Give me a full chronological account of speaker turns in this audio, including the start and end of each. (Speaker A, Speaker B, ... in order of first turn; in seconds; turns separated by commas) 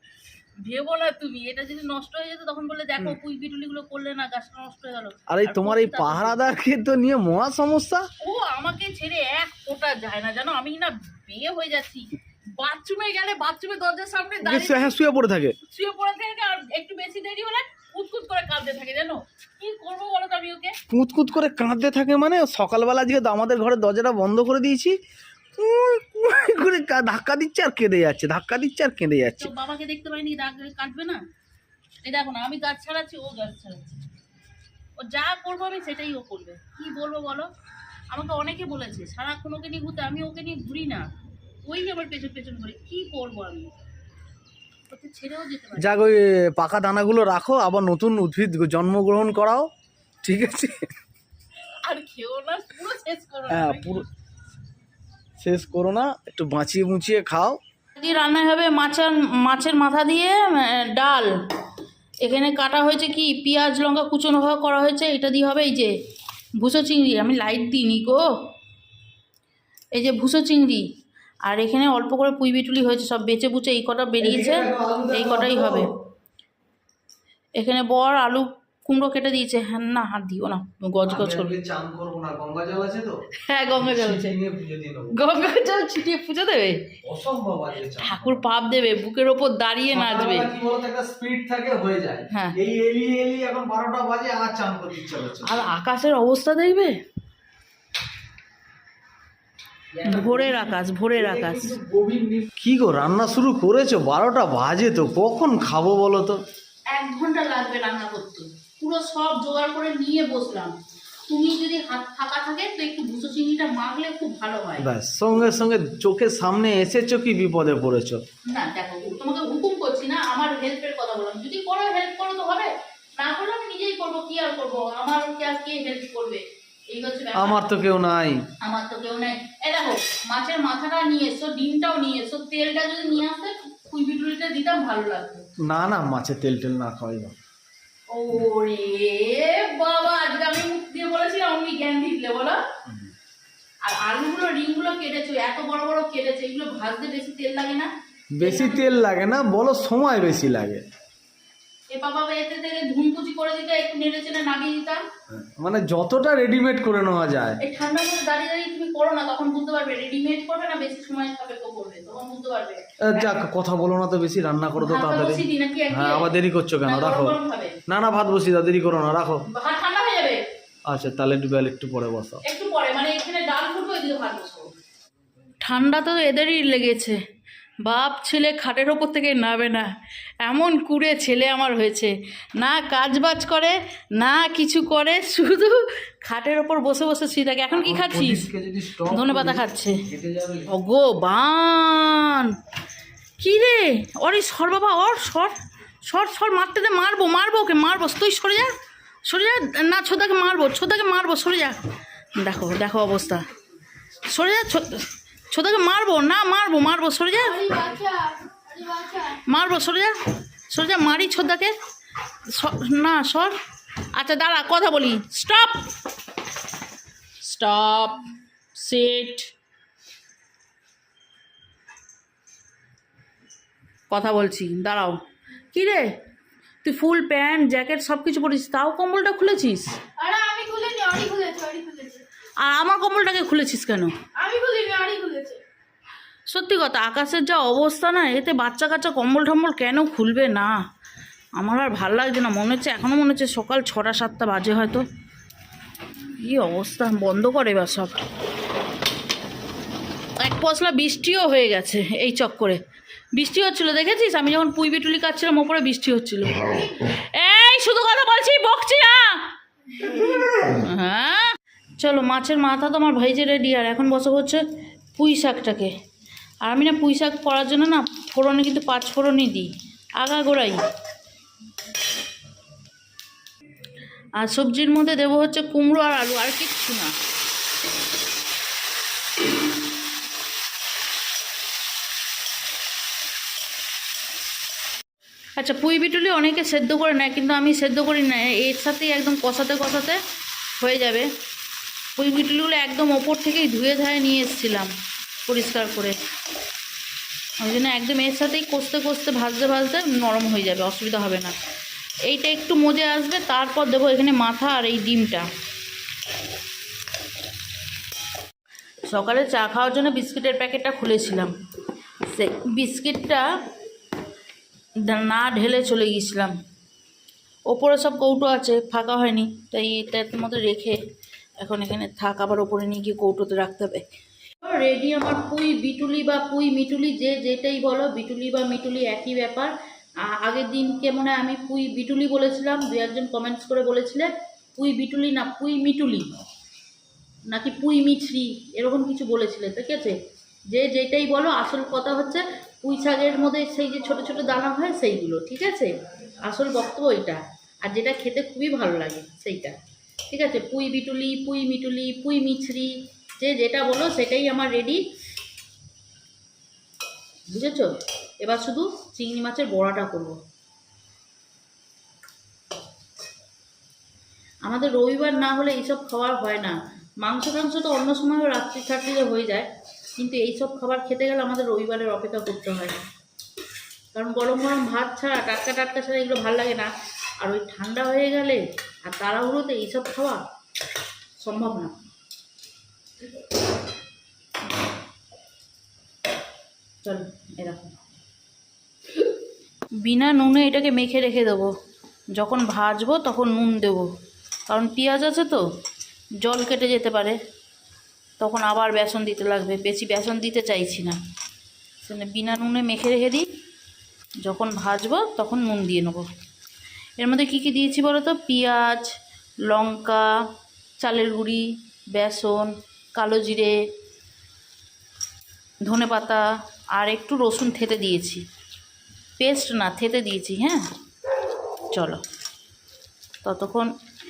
Speaker A: 0.6-6.4, Speaker B: 5.3-8.1, Speaker A: 8.2-14.9, Speaker B: 14.4-15.6, Speaker A: 15.7-20.8, Speaker B: 20.9-25.0, Speaker B: 25.6-29.5, Speaker A: 29.4-31.2, Speaker A: 32.0-34.0, Speaker A: 35.0-37.5, Speaker A: 38.1-41.1, Speaker A: 41.6-43.7, Speaker A: 44.9-46.0, Speaker B: 45.8-49.7, Speaker B: 50.2-50.9, Speaker A: 51.8-54.0, Speaker B: 53.5-54.0, Speaker B: 55.4-57.6, Speaker A: 57.9-61.3, Speaker A: 62.2-65.9, Speaker A: 66.6-68.3, Speaker A: 69.9-70.8, Speaker A: 71.4-75.9, Speaker B: 74.2-75.9, Speaker A: 77.5-81.5, Speaker B: 81.0-83.2, Speaker A: 83.4-84.3, Speaker B: 83.8-85.2, Speaker A: 85.1-86.9, Speaker B: 87.0-88.4, Speaker A: 88.0-90.5, Speaker B: 89.9-95.7, Speaker A: 92.3-92.6, Speaker A: 95.4-97.0, Speaker B: 99.9-106.4, Speaker A: 100.0-101.8, Speaker A: 106.9-110.7, Speaker A: 111.3-114.9, Speaker B: 114.8-118.2, Speaker A: 118.5-127.7, Speaker B: 127.3-128.4, Speaker A: 128.6-135.4, Speaker B: 135.6-137.3, Speaker A: 138.1-142.6, Speaker A: 143.8-148.9, Speaker B: 148.3-150.8, Speaker A: 151.9-155.0, Speaker B: 155.3-157.6, Speaker A: 157.6-163.3, Speaker B: 163.0-169.4, Speaker A: 164.8-166.3, Speaker A: 166.8-167.8, Speaker A: 169.5-170.4, Speaker B: 170.9-172.4, Speaker A: 172.4-174.7, Speaker A: 175.6-177.2, Speaker A: 177.8-179.9, Speaker A: 180.4-188.5, Speaker B: 187.7-190.7, Speaker A: 189.1-190.0, Speaker A: 190.7-192.5, Speaker A: 193.4-195.5, Speaker A: 196.0-198.7, Speaker A: 199.2-201.8, Speaker A: 202.3-203.5, Speaker A: 204.3-207.7, Speaker C: 207.4-209.4, Speaker A: 209.4-210.1, Speaker A: 210.7-211.7, Speaker A: 212.4-213.5, Speaker A: 214.1-215.9, Speaker A: 217.4-218.2, Speaker A: 218.7-219.5, Speaker A: 224.1-225.2, Speaker A: 225.7-226.1, Speaker A: 226.8-230.0, Speaker C: 230.2-232.2, Speaker A: 232.6-234.1, Speaker C: 234.3-235.6, Speaker A: 236.5-240.8, Speaker A: 241.6-245.0, Speaker A: 246.4-248.2, Speaker A: 250.4-252.8, Speaker A: 253.3-264.6, Speaker A: 265.1-265.9, Speaker A: 266.6-270.8, Speaker A: 274.4-277.1, Speaker A: 285.6-290.2, Speaker A: 290.8-291.3, Speaker A: 292.1-294.9, Speaker A: 295.4-296.2, Speaker A: 297.6-301.5, Speaker A: 302.2-305.4, Speaker A: 309.1-311.5, Speaker A: 312.2-313.4, Speaker A: 315.0-316.5, Speaker A: 317.7-321.0, Speaker A: 321.6-324.1, Speaker A: 324.6-336.3, Speaker A: 337.5-340.2, Speaker A: 340.7-345.9, Speaker A: 346.4-349.8, Speaker A: 350.3-355.0, Speaker A: 357.5-360.4, Speaker A: 364.6-373.0, Speaker A: 374.1-380.4, Speaker A: 381.4-381.9, Speaker A: 387.0-387.9, Speaker A: 390.0-391.7, Speaker A: 392.3-394.1, Speaker A: 394.7-395.6, Speaker A: 396.4-397.4, Speaker A: 398.4-401.2, Speaker A: 402.0-403.5, Speaker A: 404.4-406.2, Speaker A: 407.2-409.1, Speaker A: 409.6-410.3, Speaker A: 411.0-413.7, Speaker A: 415.8-418.4, Speaker A: 419.4-420.8, Speaker A: 421.9-422.2, Speaker A: 423.4-423.9